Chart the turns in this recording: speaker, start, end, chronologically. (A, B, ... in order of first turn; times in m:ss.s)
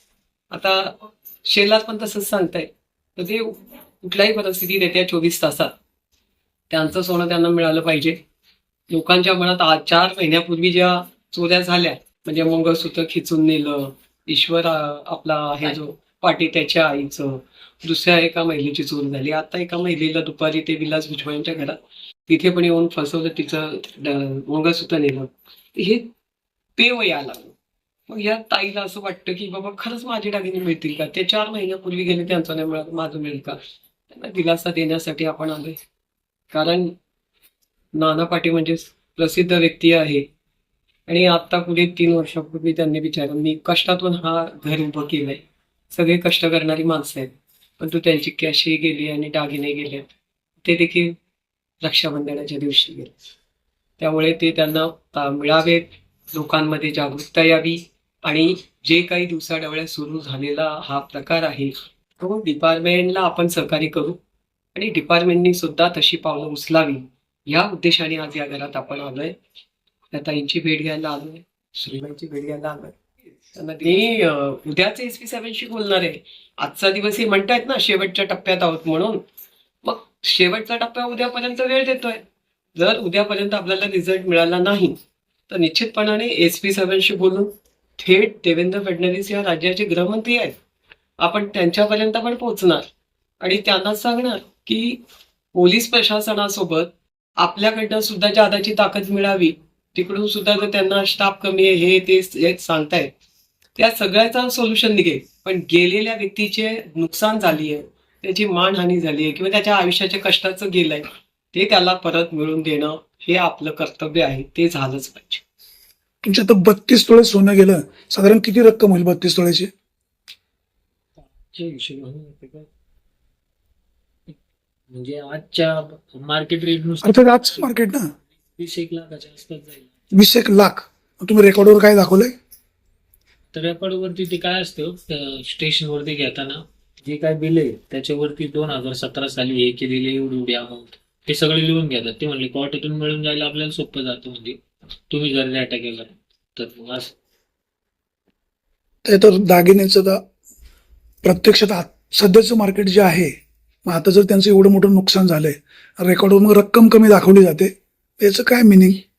0:00.5-0:05.7 A
0:06.7-0:08.2 A
0:08.9-0:26.1 A
0:26.8-0:27.5 A
0:28.1-0:33.6 A
0:34.1-0:35.8 A
0:36.5-0:37.0 A
0:37.9-0:40.3 A
0:41.1-0:50.1 A
0:50.6-0:51.2 A
0:51.8-0:53.1 A
0:54.0-1:04.2 A
1:04.7-1:09.4 A
1:10.1-1:13.0 A
1:13.5-1:19.2 A
1:19.8-1:22.2 A
1:22.7-1:25.0 A
1:25.5-1:30.5 A
1:31.2-1:32.8 A
1:33.4-1:35.0 A
1:35.5-1:43.1 A
1:43.8-1:55.4 A
1:56.2-1:59.7 B
2:01.2-2:02.7 C
2:04.9-2:07.7 C
2:07.0-2:08.1 B
2:08.6-2:09.9 C
2:10.1-2:12.3 B
2:13.5-2:27.1 C
2:29.0-2:30.2 B
2:31.2-2:33.3 B
2:33.8-2:39.0 B